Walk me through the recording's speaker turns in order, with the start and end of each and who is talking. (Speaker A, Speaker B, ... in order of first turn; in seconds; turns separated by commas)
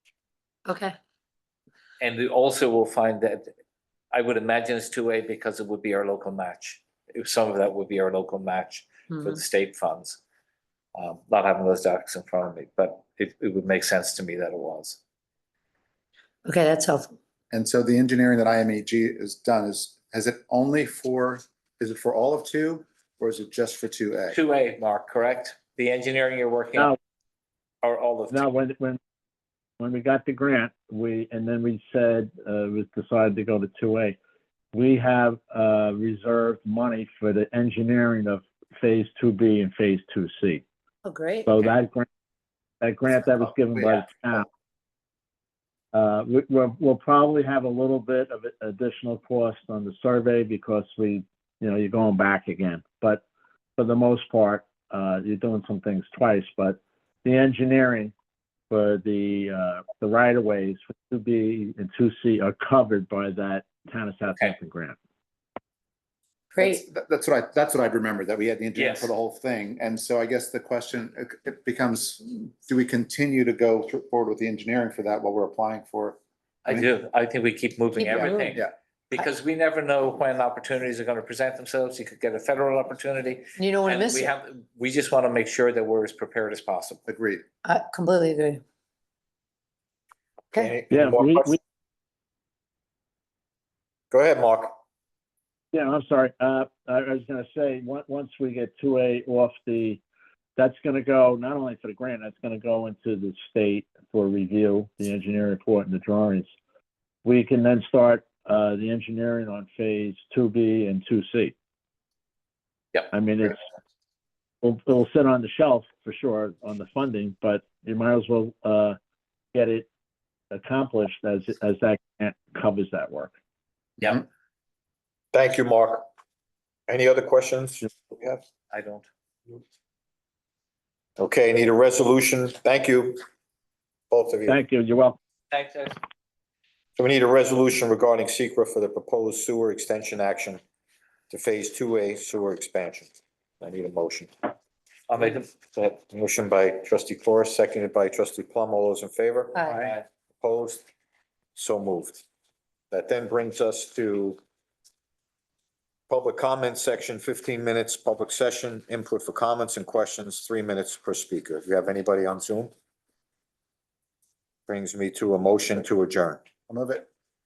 Speaker A: 0.7-1.0, Speaker B: 2.0-3.5, Speaker B: 4.1-10.2, Speaker A: 9.1-9.4, Speaker B: 10.9-15.0, Speaker A: 16.5-17.1, Speaker C: 17.5-24.4, Speaker B: 24.3-26.9, Speaker B: 27.8-28.5, Speaker D: 28.3-29.0, Speaker D: 29.8-34.2, Speaker D: 34.7-40.6, Speaker A: 41.0-41.7, Speaker D: 41.5-42.0, Speaker D: 42.8-44.5, Speaker C: 43.7-44.4, Speaker D: 45.9-53.2, Speaker D: 53.8-58.1, Speaker D: 58.7-65.0, Speaker A: 66.5-66.8, Speaker C: 66.6-76.9, Speaker B: 68.7-69.1, Speaker B: 76.6-87.0, Speaker A: 78.0-78.5, Speaker C: 78.1-78.7, Speaker A: 83.6-84.3, Speaker C: 87.1-87.4, Speaker A: 87.6-88.6, Speaker E: 90.5-91.5, Speaker D: 90.9-91.6, Speaker E: 94.1-94.8, Speaker D: 95.7-100.0, Speaker D: 100.6-106.5, Speaker D: 107.2-111.5, Speaker D: 113.1-113.6, Speaker D: 114.6-119.0, Speaker D: 119.5-119.9, Speaker D: 120.5-123.3, Speaker B: 124.0-124.2, Speaker E: 125.3-126.1, Speaker E: 126.9-128.4, Speaker B: 128.7-129.1, Speaker E: 131.2-133.2, Speaker E: 134.1-134.6, Speaker D: 134.5-135.2, Speaker B: 135.5-136.0, Speaker E: 137.0-140.6, Speaker E: 141.3-144.5, Speaker B: 145.1-146.0, Speaker E: 145.9-149.7, Speaker B: 149.7-150.0, Speaker E: 150.4-150.8, Speaker E: 151.5-152.2, Speaker E: 152.9-154.4, Speaker E: 156.1-162.7, Speaker E: 164.7-166.4, Speaker C: 166.7-167.1